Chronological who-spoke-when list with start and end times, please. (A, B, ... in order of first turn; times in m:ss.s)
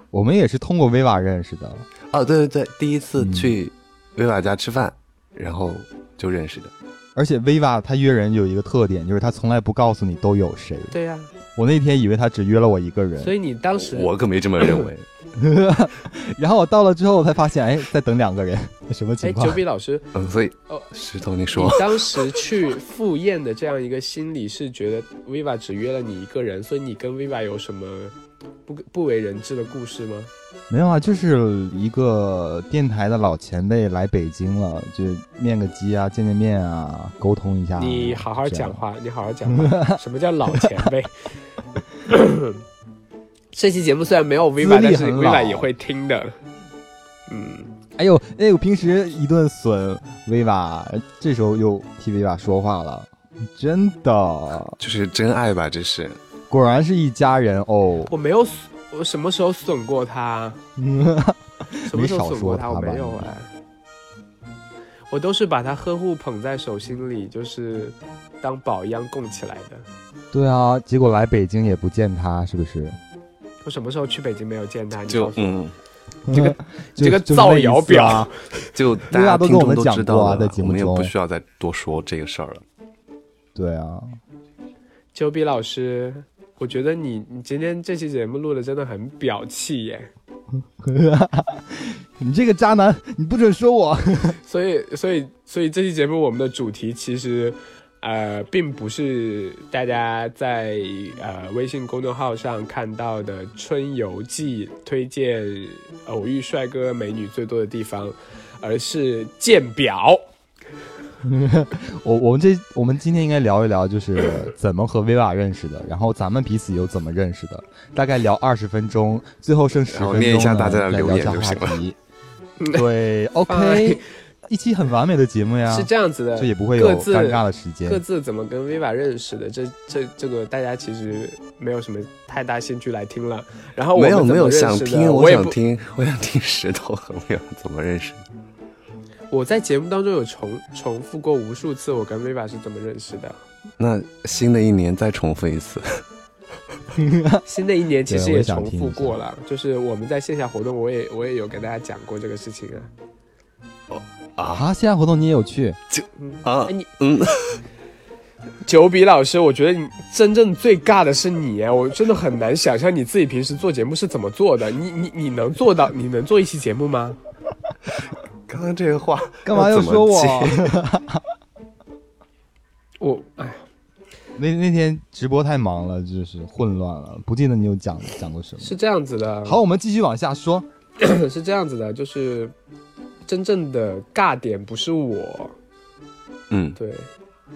0:00.1-0:01.8 A
0:02.1-0:06.7 B
0:03.2-0:03.5 A
0:07.2-0:10.9 A
0:10.9-0:11.3 C
0:11.6-0:13.3 A
0:13.2-0:14.1 C
0:13.8-0:15.0 B
0:15.4-0:19.6 A
0:19.2-0:20.1 C
0:20.1-0:22.0 B
0:21.5-0:28.1 C
0:28.6-0:30.3 C
0:30.7-0:38.8 A
0:37.8-0:41.3 C
0:39.5-0:40.0 A
0:42.1-0:42.6 C
0:43.5-0:46.4 C
0:44.6-0:45.7 A
0:47.3-0:47.7 C
0:48.0-0:54.8 A
0:54.8-0:56.2 B
0:56.5-0:58.1 A
0:58.1-1:00.6 C
1:00.8-1:03.3 A
1:01.9-1:03.5 C
1:05.1-1:09.9 C
1:10.3-1:13.0 A
1:13.6-1:15.6 C
1:15.1-1:15.7 B
1:16.3-1:18.3 A
1:16.3-1:18.3 C
1:18.7-1:22.6 B
1:19.1-1:21.1 A
1:23.5-1:24.2 A
1:25.1-1:30.1 C
1:30.8-1:34.4 A
1:34.4-1:50.2 C
1:51.2-2:02.0 A
1:59.9-2:01.8 B
2:02.7-2:08.0 A
2:03.5-2:04.0 C
2:05.7-2:15.6 C
2:13.9-2:18.2 B
2:19.3-2:23.4 C
2:23.8-2:26.0 B
2:26.9-2:27.4 A
2:27.4-2:32.9 C
2:28.1-2:29.1 A
2:33.9-2:34.6 B
2:34.5-2:35.8 A
2:35.9-2:37.6 B
2:36.2-2:36.9 C
2:38.6-2:47.2 C
2:48.5-2:50.8 B
2:49.4-2:51.2 A
2:53.0-2:53.6 C
2:54.4-2:58.7 A
2:58.6-2:59.6 C
2:59.4-3:00.6 A
3:01.0-3:02.5 C
3:03.2-3:05.6 C
3:06.5-3:06.8 B
3:06.8-3:07.1 C